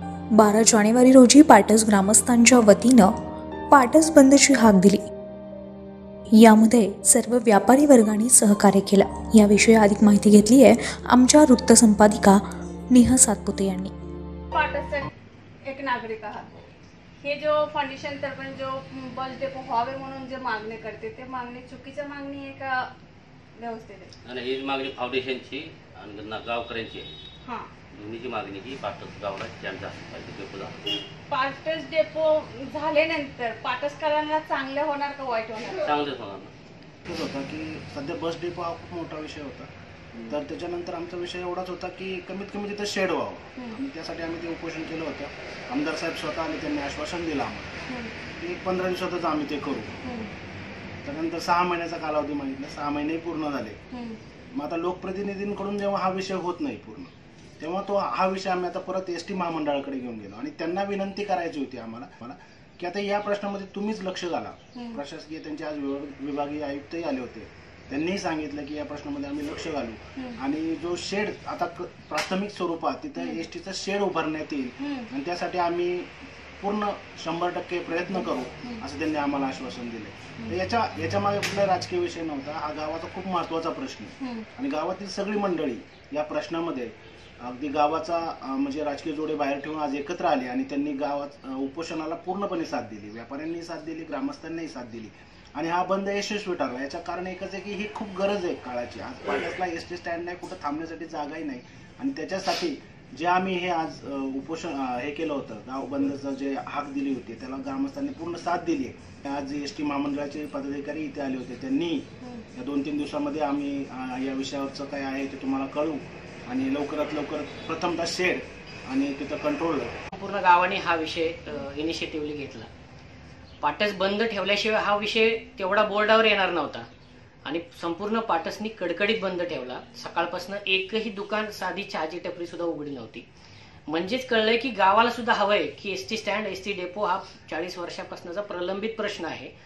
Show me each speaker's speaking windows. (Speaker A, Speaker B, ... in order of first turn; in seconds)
Speaker A: 0.3-3.1, 3.7-5.0, 6.4-13.9
Speaker B: 14.5-15.1, 15.6-16.5, 17.2-22.8, 23.6-24.1, 27.4-27.7, 31.3-35.9, 47.9-48.1, 50.0-50.3, 53.9-54.2, 64.7-65.0, 74.8-75.1, 84.2-84.5
Speaker C: 24.2-27.1, 27.9-30.7, 35.8-36.5
Speaker D: 37.0-39.7, 40.3-47.8, 48.3-49.9, 51.0-53.8, 54.5-119.9
Speaker E: 120.1-122.7, 123.6-126.9, 127.4-133.2, 133.9-139.5